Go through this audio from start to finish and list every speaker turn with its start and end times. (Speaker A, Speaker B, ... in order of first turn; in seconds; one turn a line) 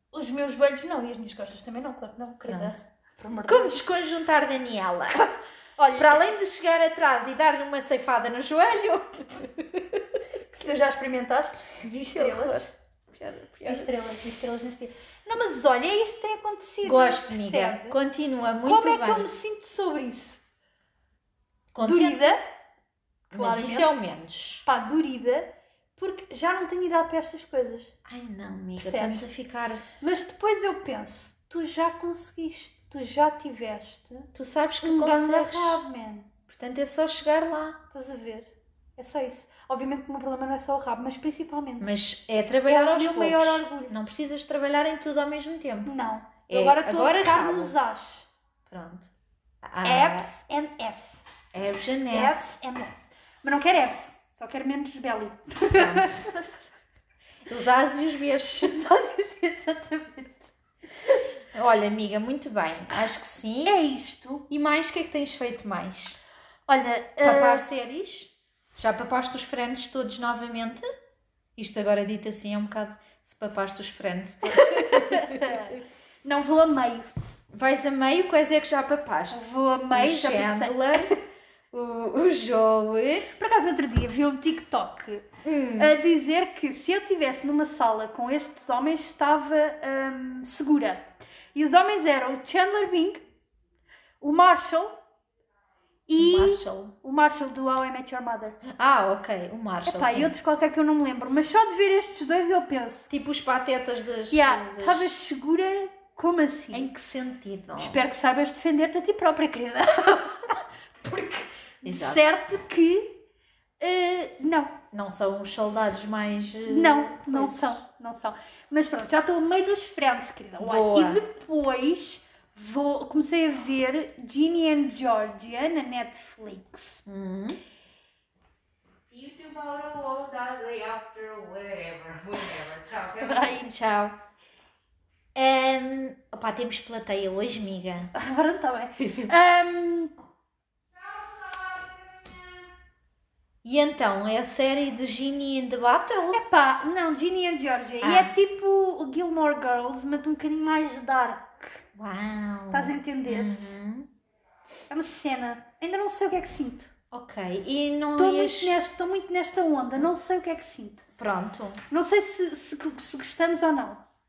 Speaker A: 0.1-3.9
Speaker B: 2.5-2.8
Speaker B: 3.5-5.3
Speaker A: 5.1-6.2
Speaker B: 5.9-10.2
Speaker A: 10.4-12.6
Speaker B: 12.0-13.9
Speaker A: 13.7-18.0
Speaker B: 16.8-19.3
Speaker A: 18.6-20.4
Speaker B: 21.7-22.4
Speaker A: 21.8-22.4
Speaker A: 23.3-24.0
Speaker B: 23.3-24.7
Speaker A: 24.6-27.9
Speaker B: 28.1-29.8
Speaker A: 28.8-29.2
Speaker A: 30.0-34.3
Speaker B: 34.3-35.8
Speaker A: 34.8-36.3
Speaker B: 36.5-37.8
Speaker A: 37.9-41.9
Speaker B: 41.8-45.9
Speaker A: 42.7-44.0
Speaker A: 45.9-48.3
Speaker B: 46.5-47.8
Speaker B: 48.7-49.1
Speaker B: 49.6-50.3
Speaker A: 49.8-51.2
Speaker B: 51.5-52.6
Speaker A: 52.1-56.5
Speaker B: 55.7-56.3
Speaker B: 57.5-58.8
Speaker A: 58.4-60.5
Speaker B: 61.5-63.8
Speaker A: 63.6-64.5
Speaker B: 64.5-66.2
Speaker A: 66.7-67.7
Speaker B: 67.2-70.9
Speaker B: 71.6-75.7
Speaker A: 74.5-77.1
Speaker B: 77.5-83.3
Speaker A: 79.3-81.1
Speaker A: 83.3-93.2
Speaker B: 85.4-85.9
Speaker A: 94.2-95.0
Speaker A: 96.1-98.6
Speaker B: 96.2-97.0
Speaker B: 98.6-100.3
Speaker A: 99.9-103.1
Speaker B: 103.1-105.1
Speaker A: 104.3-106.9
Speaker B: 106.7-108.0
Speaker A: 107.8-113.2
Speaker B: 111.8-112.2
Speaker A: 113.8-114.8
Speaker B: 114.9-117.8
Speaker A: 116.7-127.0
Speaker B: 120.6-121.2
Speaker B: 127.1-127.6
Speaker C: 129.1-133.4
Speaker A: 133.1-133.7
Speaker B: 133.6-134.2
Speaker B: 135.3-138.1
Speaker A: 138.2-140.1
Speaker C: 141.5-141.9
Speaker B: 143.6-146.4
Speaker A: 146.3-151.8
Speaker B: 148.0-148.3
Speaker B: 151.9-154.1
Speaker A: 152.7-153.7
Speaker A: 154.9-156.9
Speaker B: 157.1-158.8
Speaker A: 158.2-161.1
Speaker B: 161.2-161.8
Speaker A: 161.9-164.1